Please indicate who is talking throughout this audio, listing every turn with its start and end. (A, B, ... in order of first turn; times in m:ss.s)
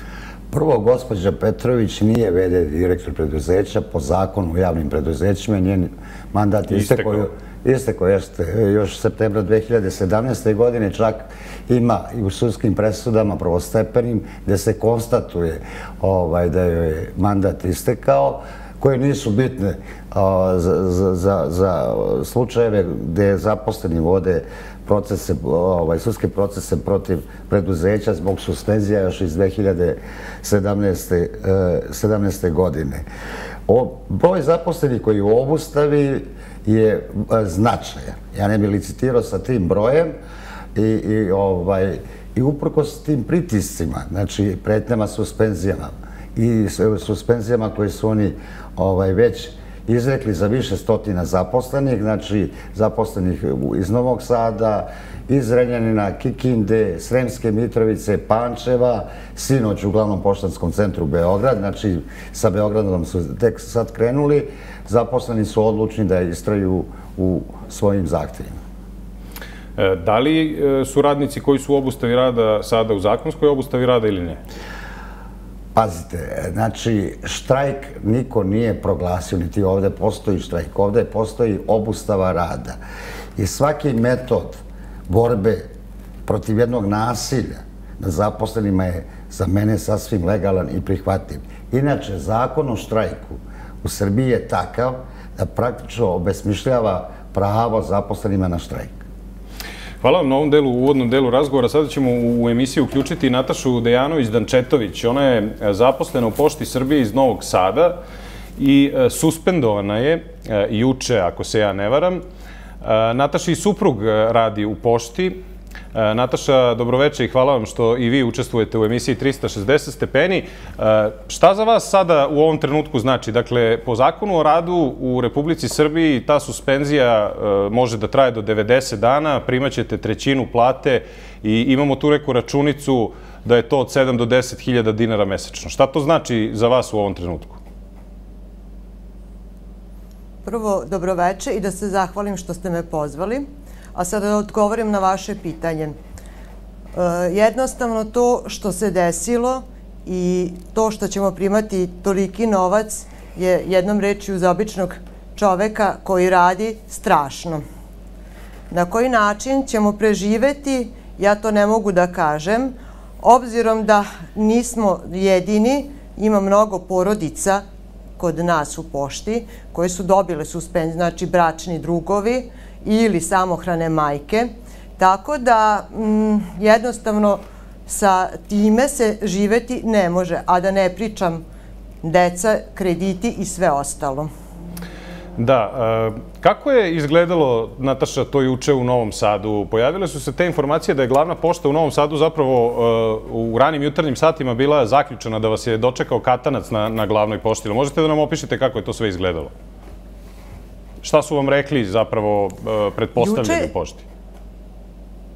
0:00.5-0:33.1 A
0:06.7-0:07.2 B
0:33.7-0:40.2 A
0:40.8-1:08.6 A
1:09.8-1:14.4 B
1:15.8-1:22.8 A
1:23.4-1:25.7 A
1:26.3-1:39.0 A
1:40.0-1:48.0 B
1:48.6-1:52.2 B
1:52.8-1:55.4 B
1:55.9-2:17.6 B
2:20.4-2:26.0 C
2:26.9-2:37.6 C
2:38.7-2:47.6 C
2:48.2-3:01.4 C
3:02.0-3:04.3 C
3:05.4-3:19.5 B
3:21.0-3:24.0 B
3:23.2-3:23.7 C